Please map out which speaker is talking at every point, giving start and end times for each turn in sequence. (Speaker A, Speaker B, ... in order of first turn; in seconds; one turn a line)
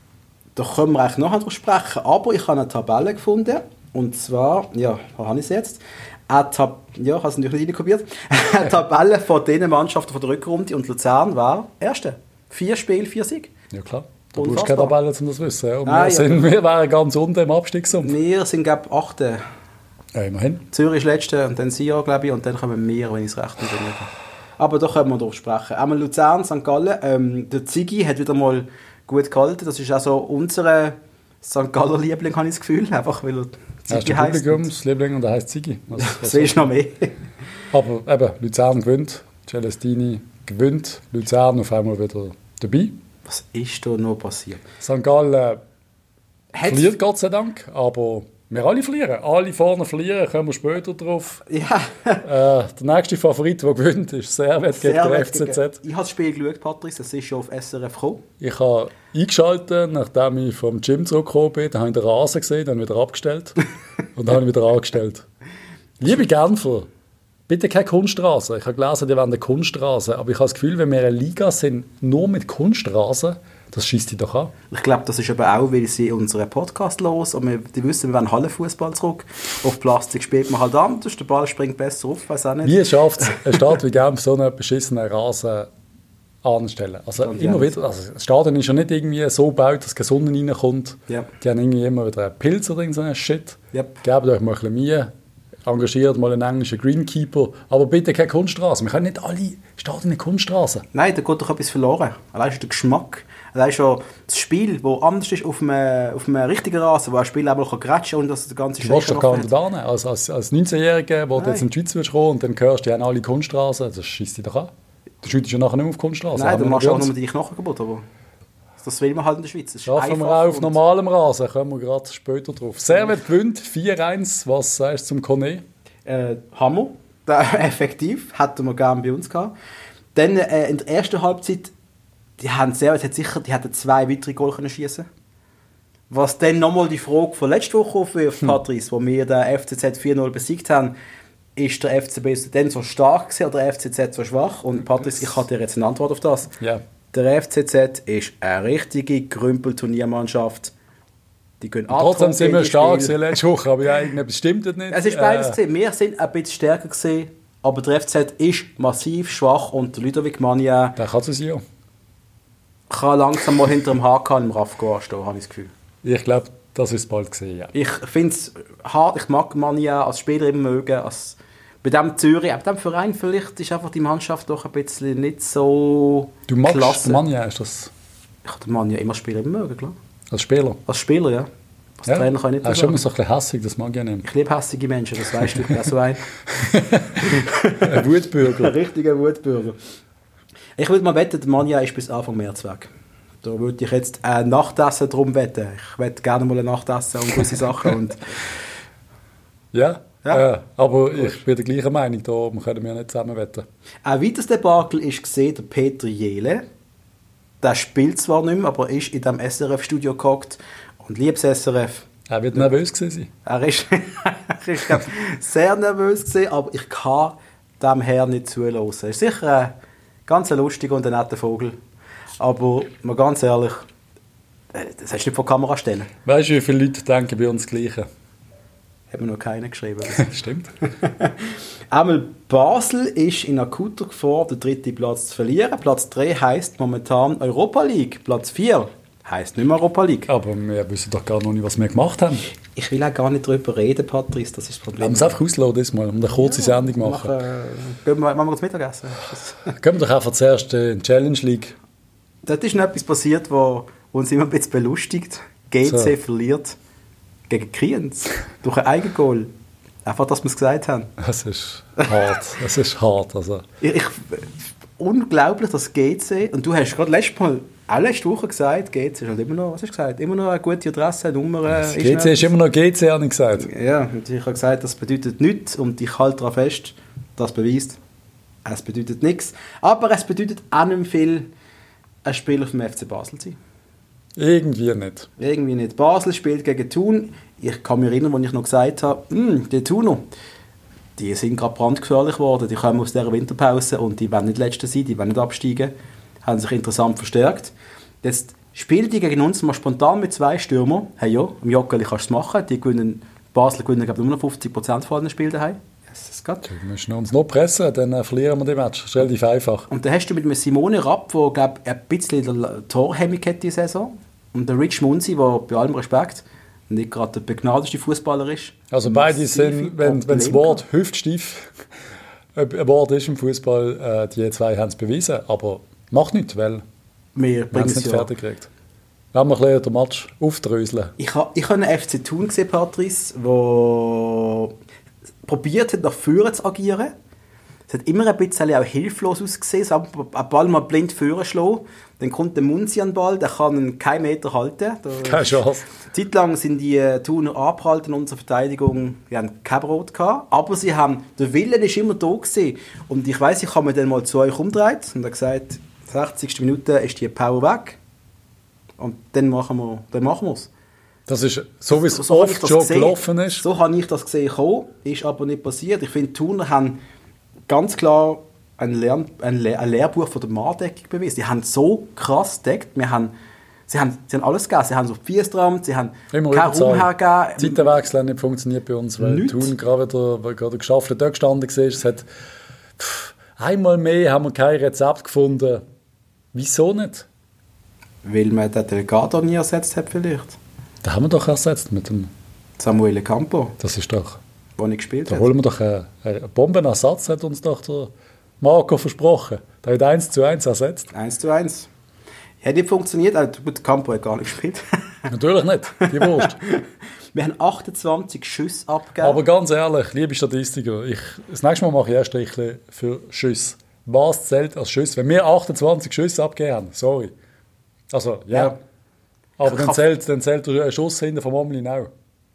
Speaker A: 0.6-13.5
Speaker B: 13.7-18.1
Speaker A: 14.3-14.9
Speaker A: 15.8-16.5
Speaker A: 18.0-19.4
Speaker B: 20.1-20.6
Speaker A: 20.7-34.7
Speaker B: 33.9-36.7
Speaker A: 36.0-37.1
Speaker B: 37.7-43.0
Speaker A: 43.2-44.6
Speaker B: 44.8-45.6
Speaker A: 46.5-46.9
Speaker B: 46.6-51.4
Speaker A: 51.5-52.2
Speaker B: 52.2-55.8
Speaker A: 54.7-58.2
Speaker B: 58.4-63.6
Speaker B: 64.1-65.2
Speaker B: 66.0-66.9
Speaker B: 67.5-74.5
Speaker A: 74.7-83.6
Speaker B: 82.6-85.7
Speaker B: 86.4-95.1
Speaker A: 87.2-87.7
Speaker A: 93.7-94.0
Speaker B: 95.6-100.8
Speaker A: 100.9-109.5
Speaker B: 108.8-114.7
Speaker A: 111.4-111.6
Speaker B: 115.2-117.1
Speaker A: 116.3-118.0
Speaker A: 118.8-120.8
Speaker B: 119.9-125.6
Speaker A: 126.0-129.5
Speaker A: 130.1-131.7
Speaker A: 132.4-135.1
Speaker A: 136.1-140.9
Speaker A: 141.6-146.5
Speaker A: 147.1-150.7
Speaker A: 151.6-153.2
Speaker B: 151.9-155.6
Speaker A: 154.9-161.0
Speaker B: 161.0-161.6
Speaker A: 162.9-165.7
Speaker B: 166.0-167.7
Speaker A: 167.7-177.2
Speaker B: 176.5-177.9
Speaker A: 178.4-179.9
Speaker B: 180.3-180.8
Speaker A: 180.8-181.5
Speaker A: 182.0-183.0
Speaker B: 182.1-184.2
Speaker A: 184.2-186.3
Speaker B: 185.4-185.7
Speaker B: 186.5-188.7
Speaker A: 187.2-189.8
Speaker A: 190.8-192.9
Speaker A: 193.4-198.3
Speaker B: 199.7-203.7
Speaker A: 204.0-206.6
Speaker A: 207.6-212.7
Speaker B: 212.3-213.3
Speaker A: 213.4-219.7
Speaker A: 220.3-221.7
Speaker A: 222.4-223.8
Speaker A: 224.7-226.1
Speaker B: 226.2-228.1
Speaker A: 229.1-230.3
Speaker B: 230.1-230.7
Speaker A: 231.0-240.3
Speaker B: 240.3-242.5
Speaker A: 242.7-245.3
Speaker B: 245.0-247.3
Speaker A: 246.3-249.7
Speaker B: 249.7-251.7
Speaker A: 252.4-256.8
Speaker B: 255.8-256.1
Speaker A: 257.5-259.5
Speaker A: 260.0-261.1
Speaker B: 261.2-263.6
Speaker A: 263.8-272.5
Speaker B: 271.7-273.7
Speaker A: 273.6-278.0
Speaker A: 278.6-281.5
Speaker A: 282.2-283.6
Speaker B: 284.4-285.3
Speaker A: 285.4-290.2
Speaker A: 291.2-295.9
Speaker A: 296.4-306.7
Speaker B: 306.6-309.9
Speaker A: 309.9-320.8
Speaker B: 318.9-321.7
Speaker B: 322.5-326.8
Speaker A: 327.4-328.3
Speaker B: 327.7-328.7
Speaker B: 329.3-331.1
Speaker A: 331.2-334.7
Speaker A: 335.4-337.1
Speaker A: 337.9-358.0
Speaker B: 345.2-345.9
Speaker A: 359.0-360.7
Speaker B: 361.3-363.6
Speaker A: 361.9-367.0
Speaker A: 367.7-373.3
Speaker A: 373.9-378.0
Speaker B: 376.3-382.3
Speaker A: 379.2-379.7
Speaker B: 383.0-385.8
Speaker B: 386.5-387.3
Speaker A: 388.2-390.6
Speaker B: 391.0-392.3
Speaker A: 392.8-393.8
Speaker B: 393.8-394.4
Speaker A: 394.8-395.5
Speaker B: 395.3-401.1
Speaker A: 401.1-401.9
Speaker A: 402.6-404.8
Speaker B: 405.3-406.6
Speaker A: 406.0-406.8
Speaker A: 407.3-409.4
Speaker B: 409.2-417.3
Speaker B: 418.1-418.8
Speaker B: 419.6-422.1
Speaker A: 419.6-420.0